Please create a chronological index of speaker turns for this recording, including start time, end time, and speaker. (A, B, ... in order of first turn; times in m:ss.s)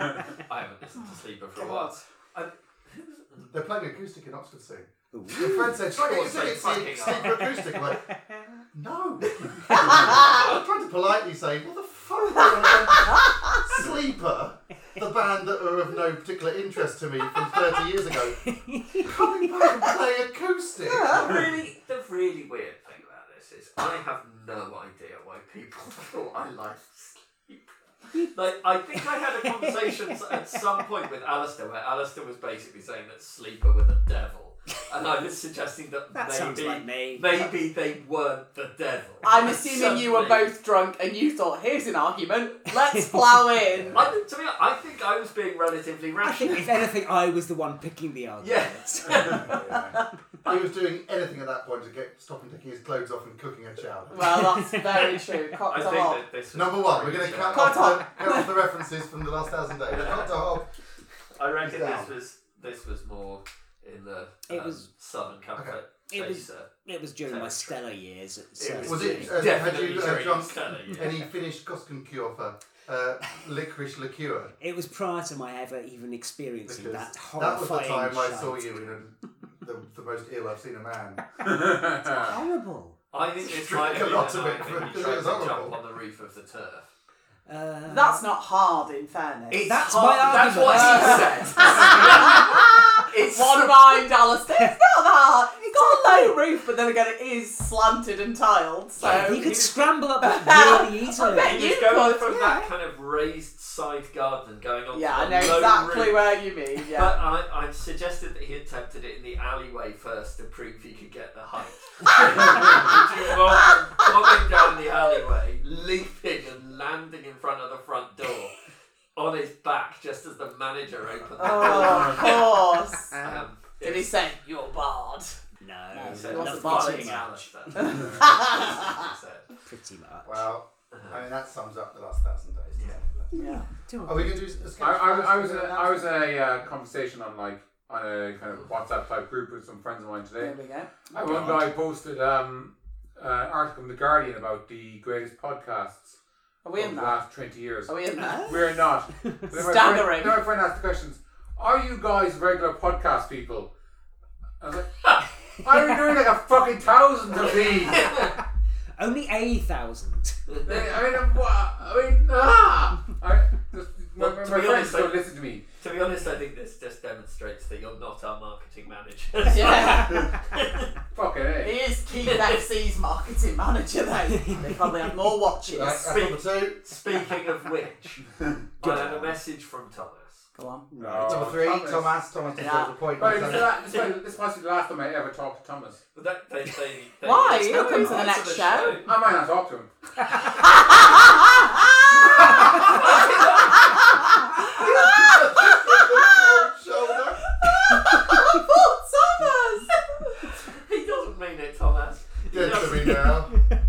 0:00.5-0:03.5 A
0:01.6-0:01.9 B
0:03.5-0:08.1 C
0:05.1-0:05.8 D
0:05.9-0:07.5 A
0:07.2-0:08.6 D
0:08.7-0:21.3 C
0:10.2-0:10.6 A
0:18.4-0:19.6 D
0:20.9-0:21.4 B
0:21.1-0:40.5 A
0:28.9-0:30.6 D
0:36.1-0:37.5 D
0:39.2-0:44.0 B
0:42.8-0:43.6 D
0:43.7-0:44.1 C
0:43.9-0:46.9 A
0:46.2-0:49.5 D
0:48.4-0:49.6 A
0:49.1-0:54.4 C
0:54.1-0:56.2 B
0:54.4-0:55.6 D
0:55.7-0:58.0 A
0:56.5-1:00.7 C
0:57.5-0:58.6 B
0:59.9-1:00.4 A
1:01.4-1:06.7 A
1:01.6-1:02.1 C
1:04.5-1:04.9 D
1:06.1-1:09.5 D
1:07.2-1:07.8 A
1:08.6-1:11.2 A
1:08.8-1:14.5 C
1:14.6-1:18.8 D
1:16.7-1:21.4 C
1:21.4-1:22.4 E
1:22.1-1:23.0 D
1:23.1-1:26.9 A
1:23.4-1:25.8 C
1:27.4-1:28.2 D
1:27.9-1:39.5 B
1:29.5-1:34.0 A
1:29.6-1:31.5 D
1:35.6-1:36.0 D
1:39.0-1:41.7 D
1:39.0-1:39.9 A
1:40.2-1:42.3 B
1:41.2-1:46.4 A
1:42.2-1:42.7 D
1:44.9-1:47.2 B
1:46.9-1:58.6 A
1:59.1-2:05.3 A
2:01.4-2:03.2 B
2:03.2-2:03.4 D
2:03.8-2:04.5 B
2:05.6-2:07.5 D
2:05.9-2:09.0 B
2:05.9-2:09.5 A
2:07.9-2:08.3 E
2:09.6-2:10.4 D
2:10.2-2:13.3 C
2:10.9-2:11.2 A
2:13.3-2:13.6 B
2:13.8-2:14.6 D
2:14.0-2:16.2 C
2:14.8-2:26.1 E
2:20.4-2:21.1 B
2:21.2-2:21.6 D
2:26.6-2:27.2 B
2:26.7-2:33.7 E
2:27.9-2:28.6 B
2:28.2-2:28.6 D
2:29.2-2:29.5 D
2:29.5-2:30.4 B
2:34.6-2:35.0 E
2:35.5-2:38.3 E
2:37.9-2:38.3 A
2:39.0-2:40.4 D
2:40.6-2:45.6 E
2:44.2-2:45.2 A
2:45.8-2:50.9 A
2:49.4-2:50.4 B
2:51.1-2:51.8 E
2:51.6-2:56.1 B
2:52.1-2:52.6 A
2:54.2-2:55.1 D
2:55.7-2:56.8 C
2:55.8-2:58.2 A
2:58.8-2:59.4 D
2:58.8-3:00.5 A
3:00.6-3:00.9 B
3:00.9-3:01.6 D
3:01.0-3:02.2 E
3:01.2-3:03.9 C
3:02.6-3:03.0 B
3:03.1-3:06.0 E
3:03.5-3:04.2 A
3:06.1-3:09.1 A
3:07.2-3:09.1 B
3:09.0-3:09.9 E
3:10.8-3:11.7 B
3:12.9-3:13.8 A
3:13.7-3:14.1 B
3:14.8-3:17.4 C
3:14.8-3:16.6 B
3:17.6-3:19.9 B
3:20.7-3:23.4 A
3:22.5-3:23.6 C